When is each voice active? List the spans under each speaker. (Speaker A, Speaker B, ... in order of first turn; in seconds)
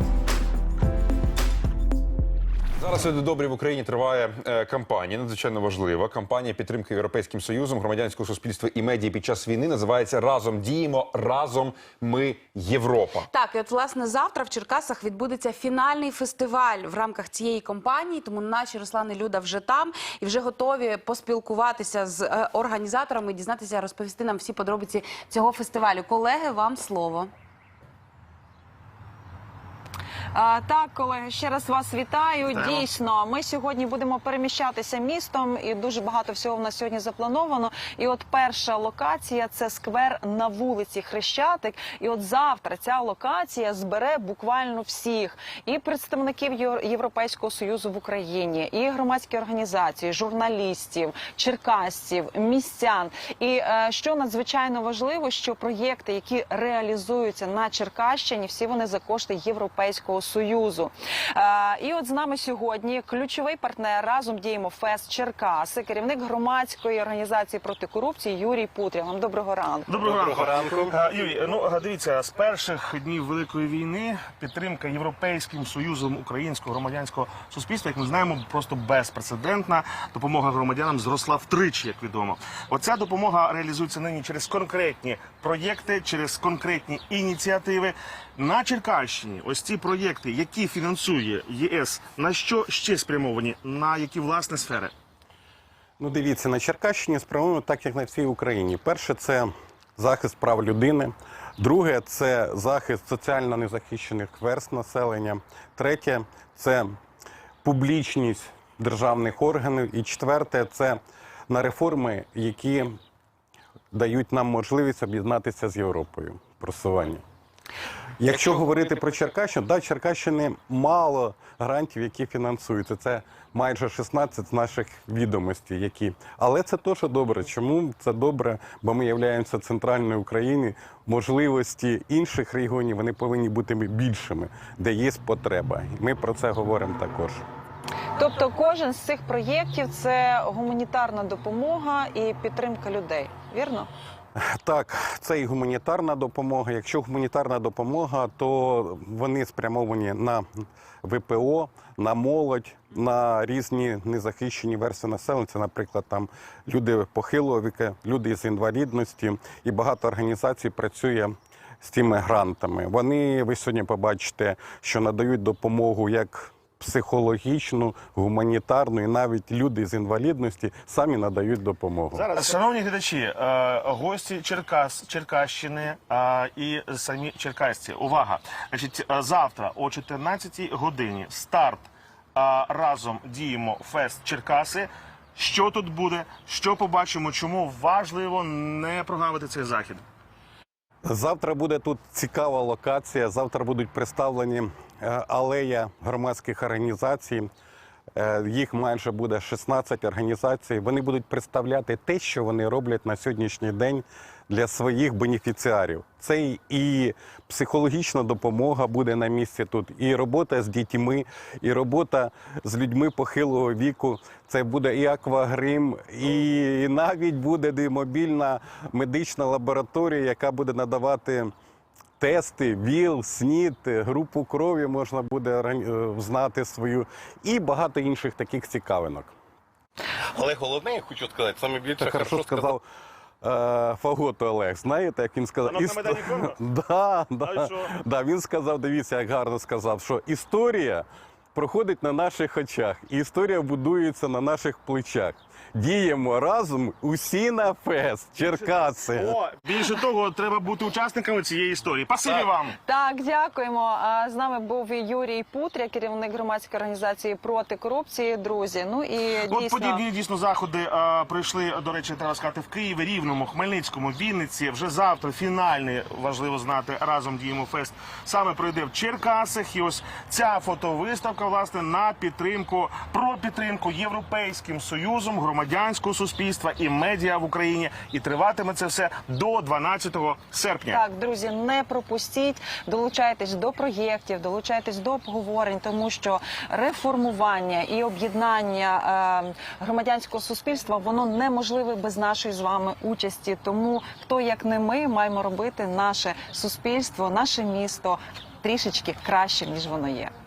Speaker A: 2.8-13.3
Speaker B: 13.3-27.3
Speaker C: 30.3-69.9, 138.2-143.9, 252.8-260.0, 280.9-300.3
Speaker D: 32.5-32.8, 69.9-94.9, 172.1-190.0, 235.6-236.6, 237.4-237.9, 249.2-252.8, 259.5-281.0
Speaker E: 70.0-70.9, 118.8-119.0, 230.3-232.8
Speaker F: 96.0-107.0, 107.6-113.0, 113.9-117.2, 118.2-137.4, 144.5-172.3, 191.1-197.5, 198.2-221.5, 222.2-229.3, 232.0-232.8, 233.4-249.4